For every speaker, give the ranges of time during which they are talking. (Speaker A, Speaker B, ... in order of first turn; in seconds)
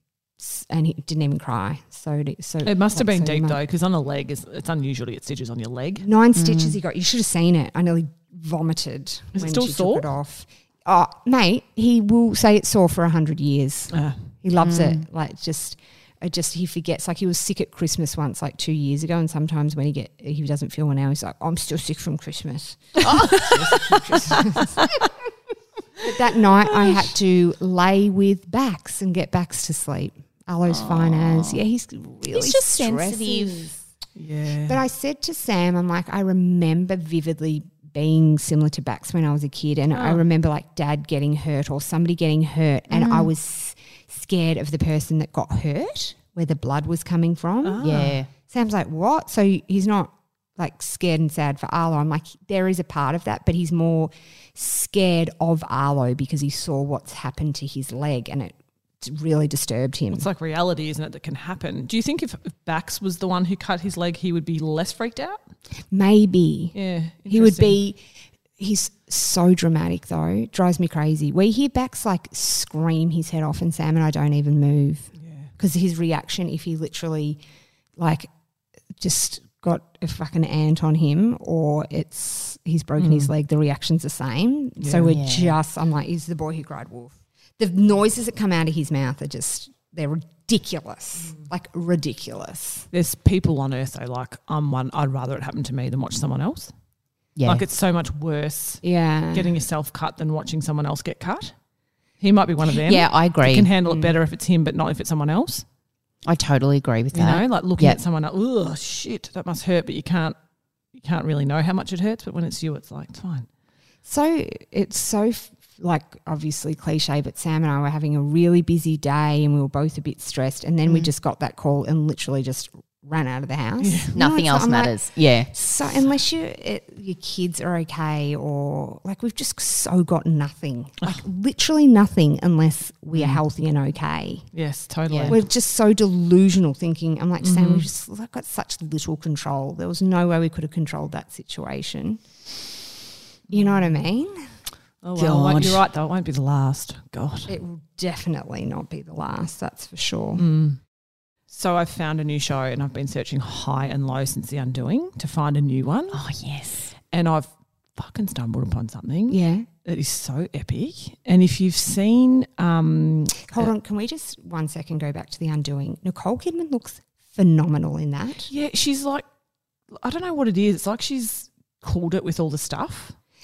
Speaker A: 0.4-3.6, 6.0-24.9, 26.0-33.8, 34.7-60.3, 65.9-66.8, 67.3-68.0, 68.6-77.4, 78.0-78.3, 79.0-92.9, 98.8-99.6, 103.8-104.2, 114.0-134.4, 135.3-142.2, 143.5-144.5, 147.5-150.4, 159.3-159.7, 163.5-168.5
Speaker B: 2.6-6.1, 9.3-10.1, 13.9-14.3, 34.2-34.8, 39.9-40.2, 47.6-48.2, 60.1-65.4, 66.7-67.8, 75.2-75.5, 83.0-83.3, 84.8-85.2, 92.9-96.7, 97.4-101.5, 102.2-105.6, 107.1-110.4, 110.9-113.5, 123.8-124.2, 133.1-133.4, 134.5-135.4, 137.4-137.9, 145.0-147.6, 150.4-150.8, 151.5-156.3, 157.1-163.7, 168.5-169.2, 169.9-173.1
Speaker C: 6.3-6.8, 14.6-15.0, 23.0-23.8, 30.7-31.6, 32.3-33.7, 42.9-43.3, 47.8-48.3, 85.1-85.6, 97.4-97.7, 102.6-103.7, 106.2-108.0, 120.9-121.1, 124.1-125.5, 135.1-135.4, 145.2-145.8, 156.1-156.9